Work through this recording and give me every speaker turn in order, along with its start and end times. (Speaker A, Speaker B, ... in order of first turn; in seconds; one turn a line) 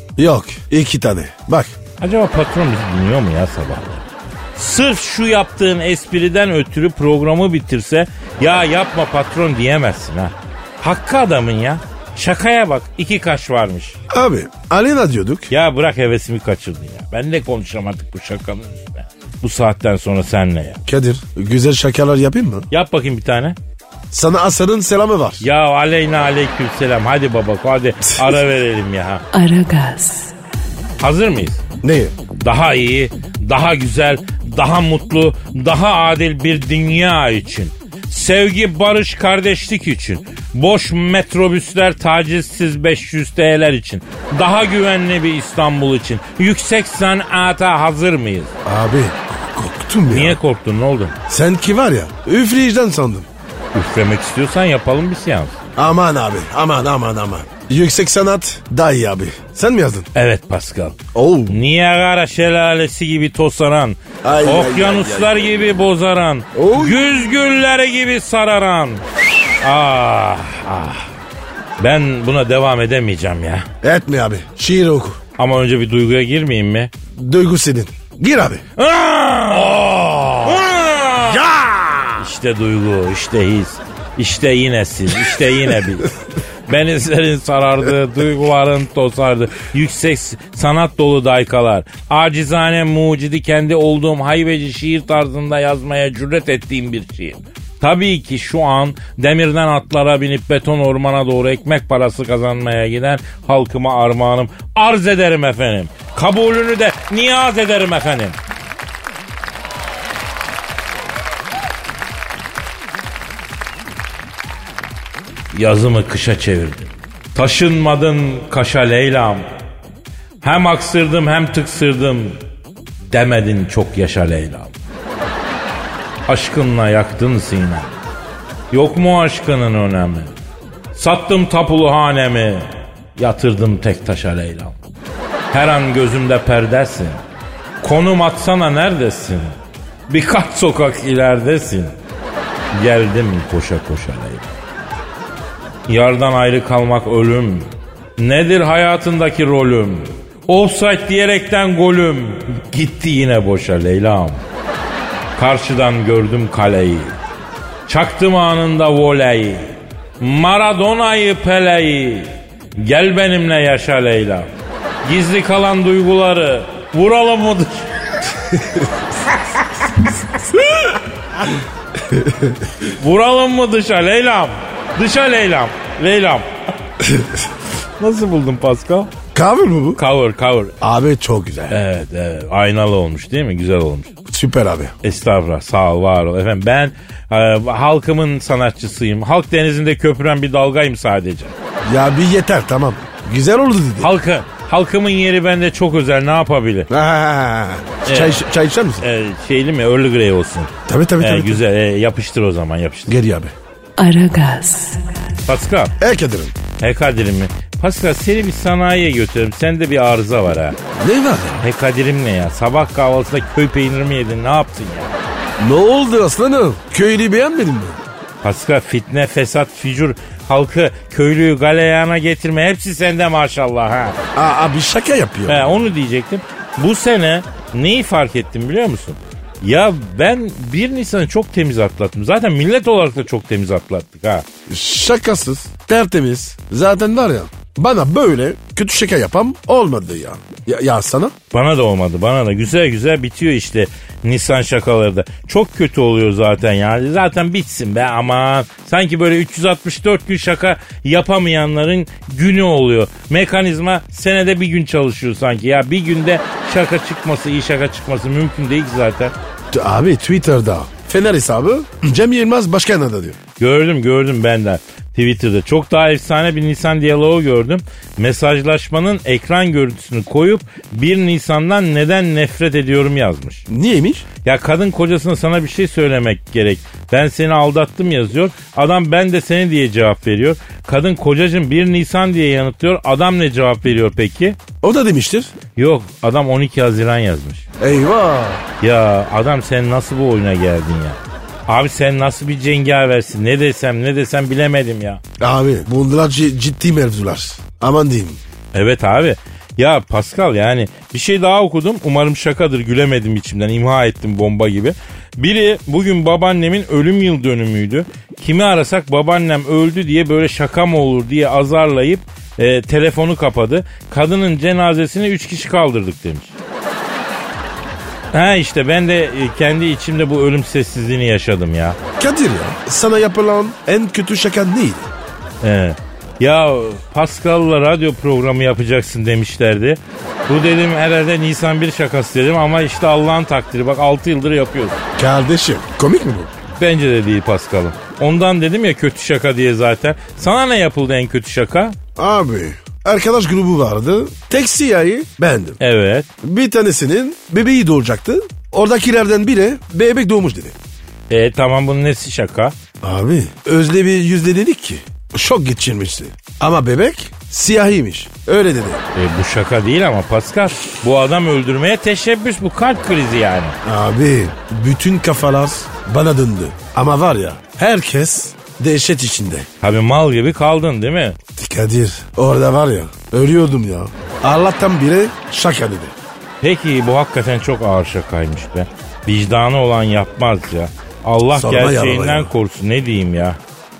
Speaker A: 0.2-1.8
Speaker B: 2.0-4.0
Speaker B: 4.5-14.0
Speaker A: 14.1-15.5
Speaker B: 15.5-20.8
Speaker A: 20.9-22.7
Speaker B: 22.7-23.6
Speaker A: 24.1-25.4
Speaker B: 25.4-29.2
Speaker C: 29.3-30.3
Speaker B: 31.0-31.6
Speaker A: 31.8-32.1
Speaker B: 32.3-48.5
Speaker A: 48.6-50.4
Speaker B: 50.1-51.1
Speaker A: 51.3-53.3
Speaker B: 53.7-55.6
Speaker A: 55.8-60.1
Speaker B: 60.1-69.0
Speaker A: 61.1-61.6
Speaker A: 64.2-65.7
Speaker A: 66.5-67.0
Speaker B: 69.6-71.1
Speaker B: 71.8-73.7
Speaker A: 73.8-75.2
Speaker B: 75.4-76.9
Speaker A: 77.1-78.6
Speaker B: 78.8-79.9
Speaker A: 79.7-80.6
Speaker B: 80.4-81.4
Speaker A: 81.2-82.3
Speaker B: 82.2-108.4
Speaker B: 115.5-119.5
Speaker B: 120.4-122.4
Speaker B: 123.1-124.7
Speaker B: 126.3-127.9
Speaker B: 128.7-130.3
Speaker B: 130.9-134.8
Speaker B: 135.5-137.2
Speaker B: 137.8-139.5
Speaker B: 140.1-141.9
Speaker B: 142.7-144.6
Speaker B: 145.9-154.4
Speaker B: 155.3-157.1
Speaker B: 157.9-164.5
Speaker B: 165.0-167.9
Speaker A: 172.1-172.6
Speaker B: 172.8-176.5
Speaker B: 178.0-179.1
Speaker A: 179.3-180.0
Speaker B: 179.9-180.7
Speaker A: 180.8-181.8
Speaker B: 181.7-184.1
Speaker A: 184.2-184.9
Speaker B: 185.0-191.5
Speaker A: 191.8-194.1
Speaker B: 194.0-196.9
Speaker A: 196.9-199.0
Speaker B: 198.1-198.4
Speaker B: 199.0-203.2
Speaker A: 200.9-201.6
Speaker A: 203.1-203.5
Speaker C: 204.0-205.0
Speaker B: 205.4-205.9
Speaker A: 206.0-206.5
Speaker B: 206.8-210.8
Speaker A: 211.0-211.6
Speaker B: 211.6-215.2
Speaker A: 215.6-218.0
Speaker B: 218.4-224.2
Speaker A: 224.3-225.9
Speaker B: 225.5-234.4
Speaker A: 234.7-241.3
Speaker B: 241.5-259.3
Speaker A: 259.7-263.4
Speaker B: 263.6-273.6
Speaker A: 273.7-274.2
Speaker B: 274.4-284.6
Speaker A: 284.8-285.5
Speaker B: 285.8-287.6
Speaker A: 287.8-288.6
Speaker B: 288.8-295.2
Speaker A: 295.4-298.4
Speaker B: 298.7-316.5
Speaker B: 318.3-322.0
Speaker A: 322.2-325.1
Speaker B: 325.6-335.0
Speaker A: 335.2-336.5
Speaker B: 336.7-341.9
Speaker A: 342.1-345.8
Speaker B: 345.8-346.3
Speaker A: 346.4-350.7
Speaker B: 351.3-352.7
Speaker A: 353.0-359.0
Speaker B: 359.1-363.8
Speaker A: 363.8-369.7
Speaker B: 369.8-371.4
Speaker A: 371.5-376.1
Speaker B: 376.6-383.6
Speaker A: 381.5-382.5